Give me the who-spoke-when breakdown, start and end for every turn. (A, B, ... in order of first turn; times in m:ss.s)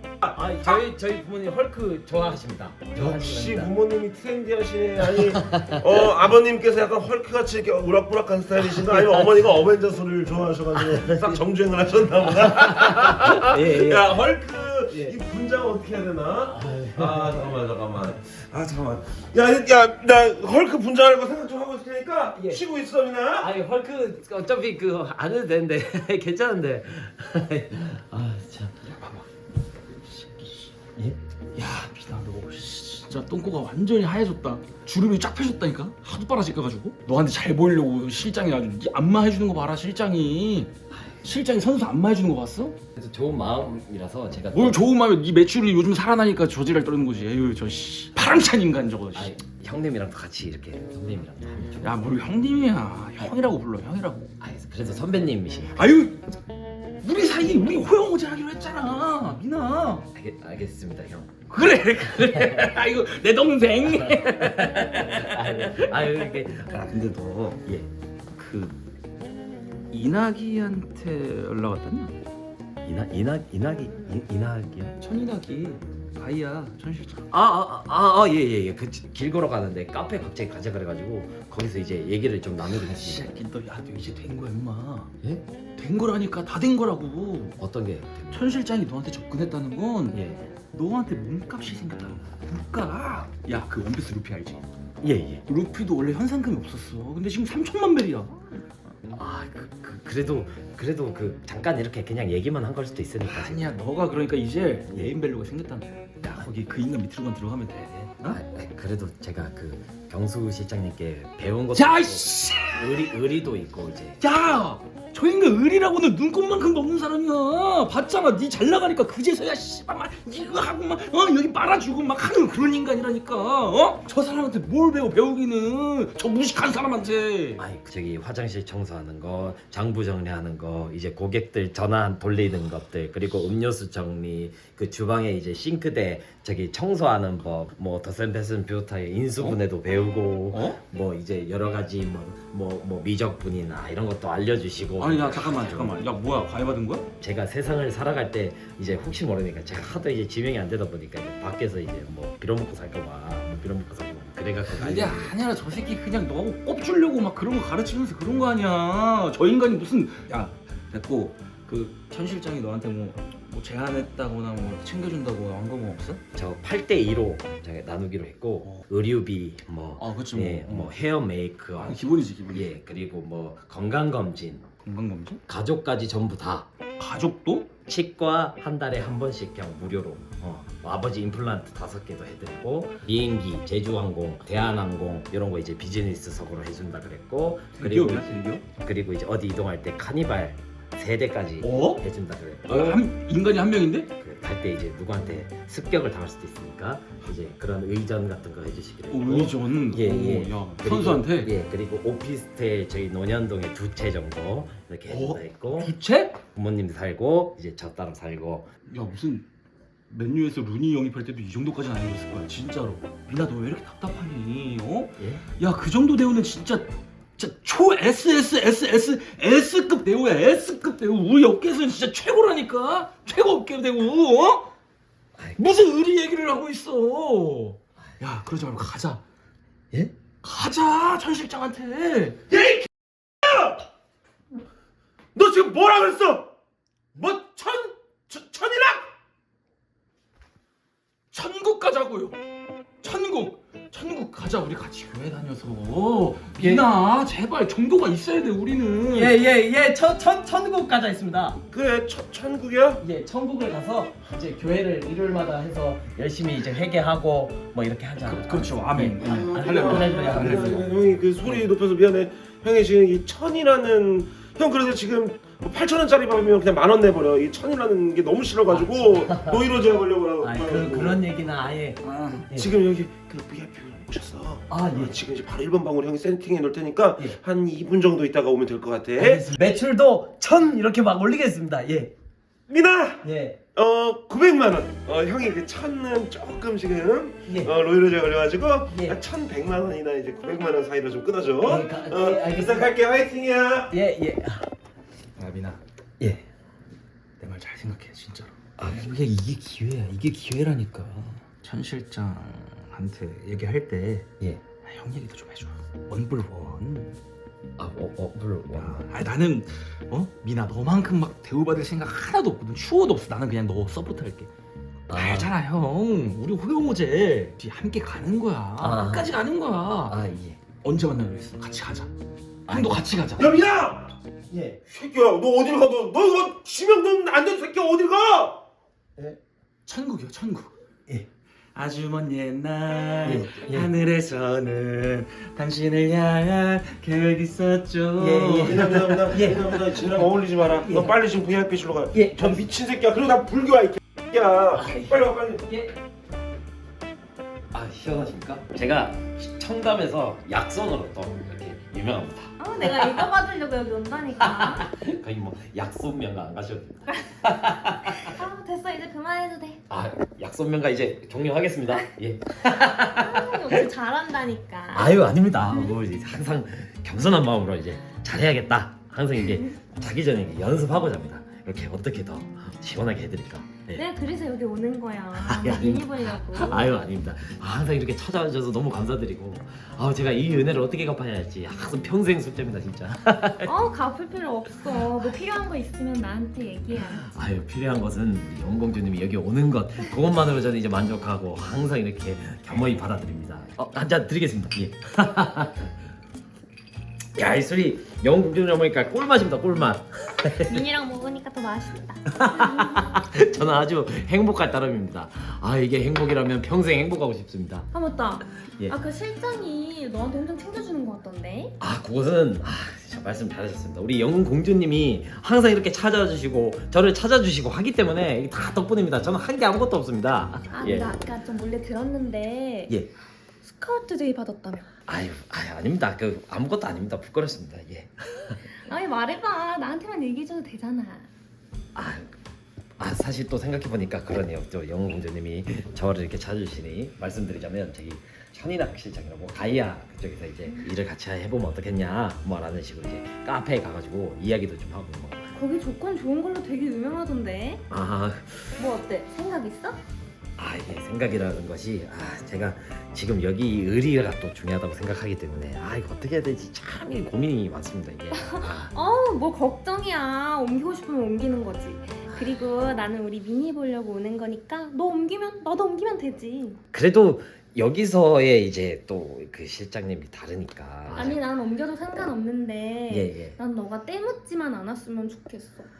0:00.3-0:03.7 A
0:02.9-0:23.5 B
0:05.4-0:05.8 A
0:08.8-0:09.2 A
0:10.8-0:11.3 A
0:12.4-0:14.2 A
0:14.9-0:15.1 A
0:16.5-0:17.4 A
0:22.4-0:22.6 A
0:23.4-0:28.7 A
0:28.8-0:29.2 C
0:30.0-0:30.7 C
0:31.6-0:40.7 C
0:40.9-0:41.2 A
0:41.2-0:42.8 C
0:42.9-0:44.8 A
0:44.5-0:49.4 C
0:49.1-0:52.0 A
0:51.8-0:54.3 C
0:54.4-0:55.8 A
0:55.8-0:56.3 C
0:57.0-1:00.1 C
1:00.1-1:02.7 A
1:01.5-1:06.1 C
1:04.0-1:07.9 A
1:08.3-1:08.8 C
1:09.9-1:12.2 C
1:12.8-1:15.0 A
1:15.0-1:17.3 C
1:17.3-1:23.3 A
1:22.6-1:25.1 C
1:25.8-1:27.6 C
1:27.6-1:28.4 A
1:28.3-1:34.6 C
1:30.1-1:30.5 A
1:35.0-1:35.4 A
1:35.4-1:38.6 C
1:39.1-1:43.7 A
1:43.2-1:48.4 C
1:48.2-1:54.2 A
1:51.7-1:53.2 C
1:54.2-2:07.6 C
2:07.6-2:26.0 A
2:20.5-2:20.8 C
2:25.0-2:27.1 C
2:27.2-2:35.4 A
2:34.6-2:46.2 C
2:46.3-2:52.0 A
2:50.0-2:50.9 C
2:51.8-2:52.7 C
2:52.5-2:54.6 A
2:54.8-2:55.4 C
2:55.5-2:56.7 A
2:57.0-2:57.7 C
2:57.8-3:13.0 A
3:07.8-3:08.6 C
3:11.6-3:12.0 C
3:12.6-3:14.1 C
3:14.2-3:25.9 A
3:19.1-3:21.5 C
3:25.1-3:26.4 C
3:26.5-3:28.7 A
3:28.9-3:29.4 C
3:30.1-3:44.7 C
3:35.2-3:35.4 A
3:45.4-3:45.6 A
3:45.6-3:49.2 C
3:50.4-3:52.4 C
3:52.5-3:53.8 B
3:55.3-3:56.5 B
3:57.1-3:59.1 B
4:01.3-4:02.4 C
4:03.0-4:09.4 C
4:06.6-4:06.8 A
4:09.1-4:11.6 A
4:11.7-4:13.0 B
4:13.0-4:20.8 A
4:18.2-4:20.9 C
4:19.2-4:31.2 B
4:28.7-4:29.6 A
4:30.4-4:32.7 A
4:32.0-4:32.5 C
4:32.5-4:39.4 B
4:34.7-4:35.2 A
4:39.2-4:42.1 A
4:42.7-4:53.9 B
4:43.2-4:43.6 A
4:47.4-4:47.7 A
4:48.9-4:49.2 A
4:51.6-4:52.9 A
4:53.9-4:54.6 A
4:55.4-4:55.8 C
4:57.4-5:04.3 C
4:58.8-4:59.2 A
5:04.8-5:07.2 C
5:07.8-5:09.1 A
5:08.7-5:14.5 C
5:15.1-5:15.5 A
5:15.1-5:20.2 C
5:18.8-5:19.3 A
5:20.0-5:20.6 A
5:20.8-5:22.1 C
5:22.7-5:23.1 A
5:22.7-5:23.5 C
5:23.4-5:24.2 B
5:24.5-5:24.8 A
5:24.8-5:28.6 B
5:29.9-5:30.7 C
5:31.8-5:39.5 C
5:33.2-5:33.9 A
5:38.2-5:39.7 A
5:38.6-5:45.6 B
5:42.1-5:42.6 A
5:44.8-5:45.9 A
5:47.7-5:53.2 A
5:52.6-5:54.9 D
5:54.4-5:58.3 A
5:58.1-5:59.8 D
5:59.9-6:03.8 A
6:03.1-6:05.2 D
6:04.9-6:14.0 A
6:14.0-6:17.0 D
6:15.4-6:23.7 A
6:23.6-6:27.3 D
6:27.1-6:35.9 A
6:37.4-6:40.8 A
6:40.6-6:43.1 D
6:42.3-6:47.9 A
6:47.9-6:51.8 D
6:51.8-7:01.1 A
7:00.7-7:02.9 D
7:03.6-7:04.9 D
7:05.1-7:08.7 A
7:08.8-7:11.3 D
7:12.0-7:12.3 A
7:13.0-7:25.5 A
7:25.5-7:27.8 D
7:27.9-7:28.8 A
7:28.8-7:30.0 D
7:30.6-7:38.9 A
7:38.4-7:46.8 D
7:46.9-7:51.4 A
7:51.1-7:55.9 D
7:53.1-7:53.6 A